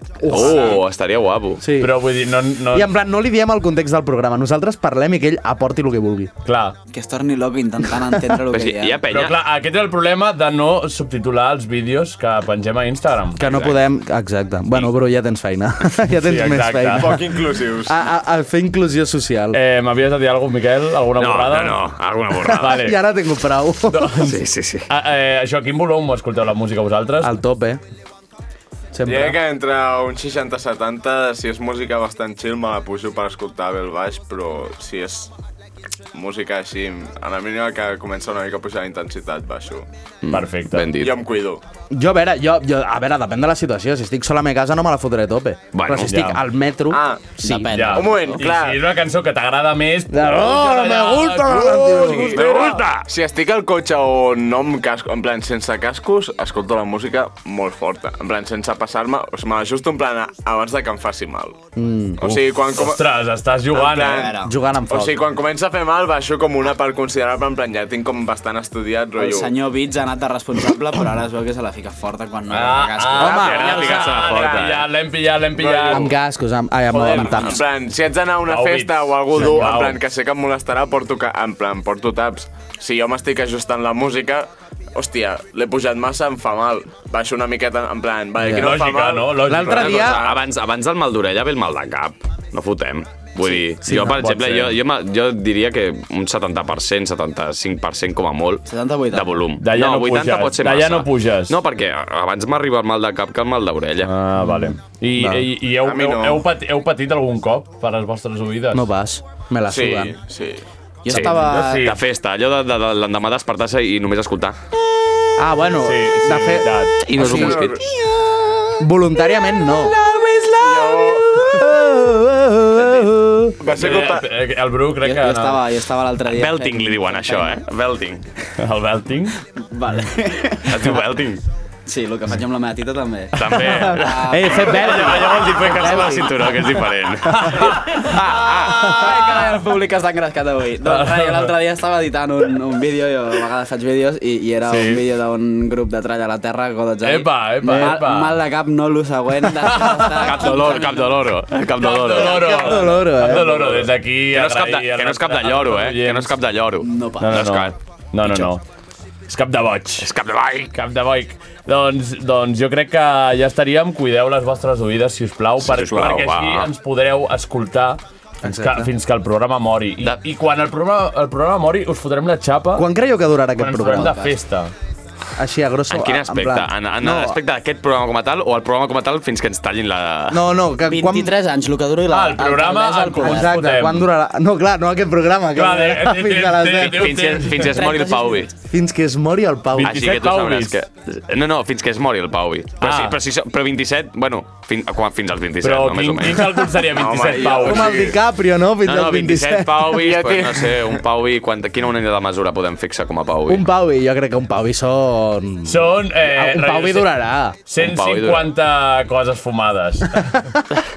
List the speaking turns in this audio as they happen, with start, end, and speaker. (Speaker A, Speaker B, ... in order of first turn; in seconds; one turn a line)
Speaker A: 0.2-0.7
Speaker B: 0.3-1.6
Speaker C: 0.4-0.8
Speaker A: 1.6-2.0
Speaker D: 1.8-2.9
Speaker A: 2.7-6.3
Speaker D: 6.4-6.8
Speaker E: 6.9-9.0
Speaker B: 8.5-9.4
Speaker D: 9.1-13.4
Speaker A: 13.4-19.6
Speaker B: 13.4-13.8
Speaker D: 16.2-17.1
Speaker C: 16.9-18.0
Speaker D: 19.5-21.8
Speaker B: 21.2-22.8
Speaker A: 22.4-24.1
Speaker D: 22.5-23.0
Speaker D: 23.9-27.3
Speaker B: 24.2-24.9
Speaker A: 27.2-27.8
Speaker A: 28.9-29.4
Speaker C: 29.1-35.3
Speaker C: 36.1-39.8
Speaker B: 40.2-41.1
Speaker D: 40.3-40.9
Speaker C: 41.0-41.6
Speaker A: 41.9-47.8
Speaker B: 45.7-46.1
Speaker D: 46.0-46.4
Speaker C: 46.9-47.4
Speaker E: 47.4-48.4
Speaker D: 47.7-52.8
Speaker C: 47.9-48.8
Speaker A: 50.1-52.7
Speaker C: 52.2-61.6
Speaker B: 52.4-53.0
Speaker A: 61.8-62.4
Speaker C: 62.2-63.0
Speaker D: 62.7-64.3
Speaker C: 63.7-64.4
Speaker E: 64.1-64.5
Speaker A: 64.4-65.2
Speaker C: 64.9-69.5
Speaker E: 69.2-73.7
Speaker D: 72.5-76.1
Speaker A: 73.2-73.9
Speaker B: 73.2-74.8
Speaker C: 73.7-74.6
Speaker C: 75.5-76.1
Speaker A: 75.9-77.6
Speaker D: 76.9-77.4
Speaker C: 77.0-90.4
Speaker D: 78.5-80.0
Speaker A: 88.4-88.7
Speaker D: 88.6-90.1
Speaker A: 89.5-90.3
Speaker B: 89.8-104.1
Speaker A: 93.8-94.2
Speaker D: 93.9-94.8
Speaker E: 98.7-99.3
Speaker D: 99.6-101.5
Speaker D: 104.0-108.9
Speaker A: 104.3-105.5
Speaker C: 105.8-106.5
Speaker A: 108.7-110.1
Speaker C: 109.7-110.6
Speaker E: 111.0-111.9
Speaker B: 111.1-114.6
Speaker D: 111.1-112.0
Speaker A: 115.4-117.5
Speaker D: 115.8-117.0
Speaker B: 117.0-117.8
Speaker C: 117.2-117.8
Speaker A: 118.8-119.9
Speaker E: 120.0-121.5
Speaker C: 120.6-121.3
Speaker A: 121.3-123.6
Speaker C: 123.6-124.3
Speaker D: 123.7-125.6
Speaker E: 125.0-127.6
Speaker B: 126.3-128.2
Speaker D: 128.6-129.3
Speaker E: 129.6-131.0
Speaker B: 130.7-131.4
Speaker E: 131.8-136.7
Speaker B: 133.3-137.7
Speaker A: 133.6-136.0
Speaker D: 134.8-136.2
Speaker D: 137.3-138.2
Speaker E: 137.9-151.3
Speaker B: 138.2-138.9
Speaker A: 138.7-139.2
Speaker D: 140.8-141.5
Speaker D: 144.7-145.0
Speaker D: 147.0-148.4
Speaker D: 149.6-150.5
Speaker B: 150.1-152.6
Speaker D: 151.8-156.3
Speaker A: 152.2-153.7
Speaker B: 154.3-157.7
Speaker E: 156.8-157.4
Speaker D: 157.2-158.6
Speaker D: 159.3-160.1
Speaker B: 160.0-160.7
Speaker D: 160.7-172.9
Speaker B: 165.6-166.7
Speaker A: 168.4-168.9
Speaker A: 172.8-174.3
Speaker D: 173.6-174.7
Speaker E: 173.9-174.3
Speaker A: 175.3-177.4
Speaker B: 175.9-180.5
Speaker A: 180.3-181.3
Speaker E: 180.8-183.5
Speaker D: 182.1-184.1
Speaker A: 183.2-187.3
Speaker D: 185.6-187.7
Speaker B: 186.8-188.5
Speaker E: 187.6-188.5
Speaker A: 188.7-190.0
Speaker D: 189.7-190.8
Speaker B: 189.8-196.6
Speaker D: 192.8-193.2
Speaker D: 195.6-198.0
Speaker C: 196.9-198.2
Speaker A: 197.5-199.9
Speaker B: 198.8-203.7
Speaker C: 199.9-200.9
Speaker A: 203.5-207.6
Speaker D: 205.6-207.1
Speaker D: 207.7-210.4
Speaker B: 207.8-208.5
Speaker A: 210.2-210.6